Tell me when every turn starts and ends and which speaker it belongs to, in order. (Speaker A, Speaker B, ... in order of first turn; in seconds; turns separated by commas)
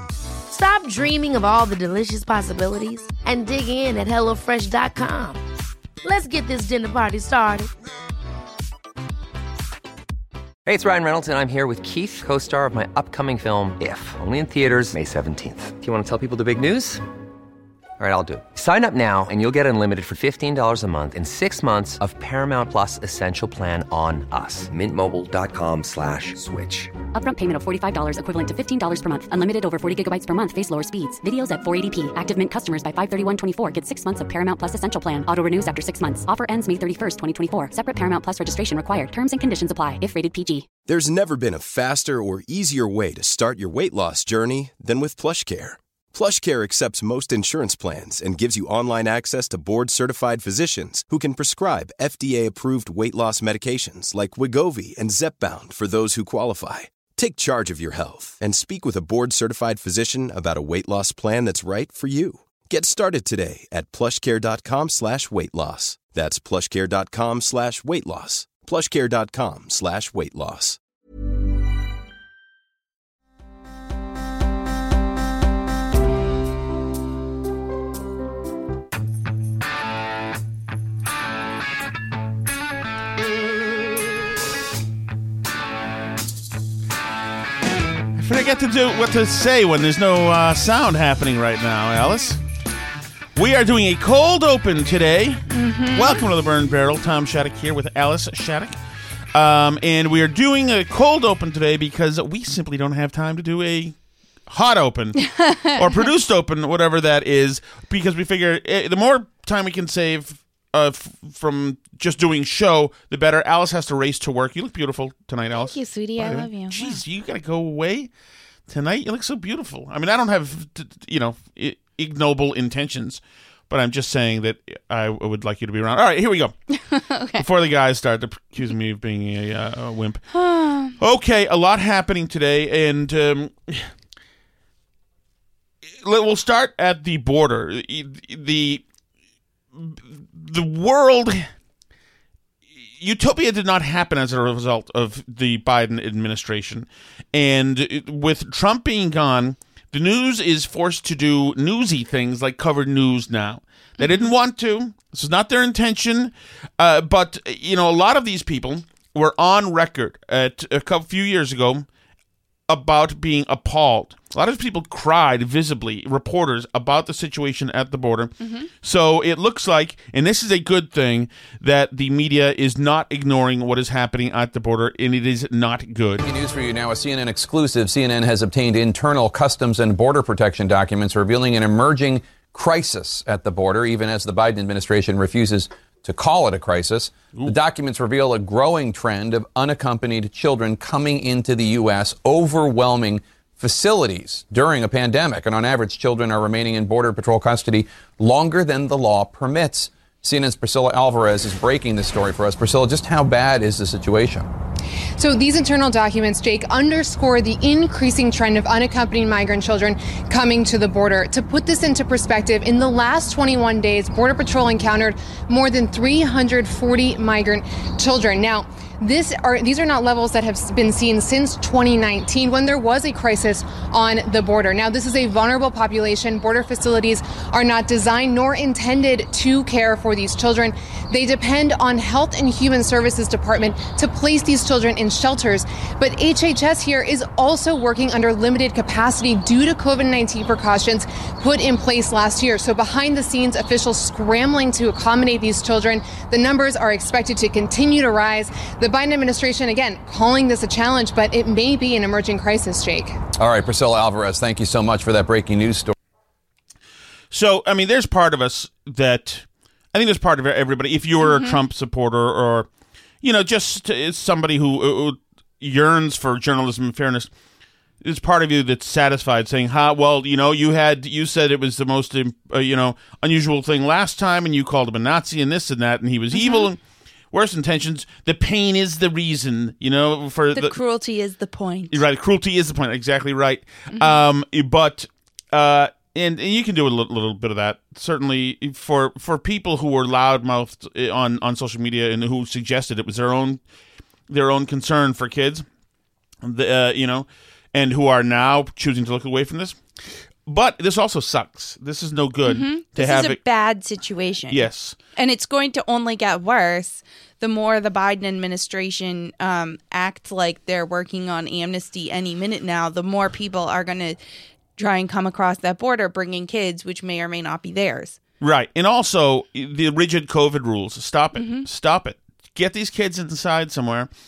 Speaker A: 0.5-5.4, Speaker A: 6.0-7.7, Speaker B: 10.7-17.0, Speaker B: 18.0-26.9, Speaker C: 27.1-40.7, Speaker D: 40.9-70.8, Speaker E: 88.2-92.4, Speaker E: 93.4-98.7, Speaker F: 95.5-96.2, Speaker E: 99.3-103.9, Speaker E: 104.5-118.1, Speaker F: 105.2-106.1, Speaker F: 115.6-117.0, Speaker E: 118.7-126.5, Speaker F: 126.7-127.4, Speaker E: 127.4-130.2, Speaker F: 130.3-130.9, Speaker E: 131.0-133.9, Speaker E: 136.0-138.8, Speaker E: 139.8-141.5, Speaker E: 143.0-161.9, Speaker F: 154.0-154.3, Speaker E: 162.7-176.2, Speaker F: 168.4-168.7, Speaker G: 176.2-204.4, Speaker H: 205.2-253.2, Speaker G: 253.4-255.9, Speaker E: 257.3-262.7, Speaker F: 261.2-261.6, Speaker E: 263.2-267.3, Speaker E: 268.0-276.8, Speaker F: 276.3-276.7, Speaker E: 277.3-280.8, Speaker F: 280.5-282.0, Speaker E: 281.9-293.6, Speaker F: 283.9-284.2, Speaker E: 294.3-295.6, Speaker E: 296.4-299.8, Speaker E: 300.4-303.4, Speaker F: 302.5-314.2, Speaker E: 304.5-304.9, Speaker F: 314.8-318.2, Speaker E: 318.4-324.1, Speaker F: 321.3-321.6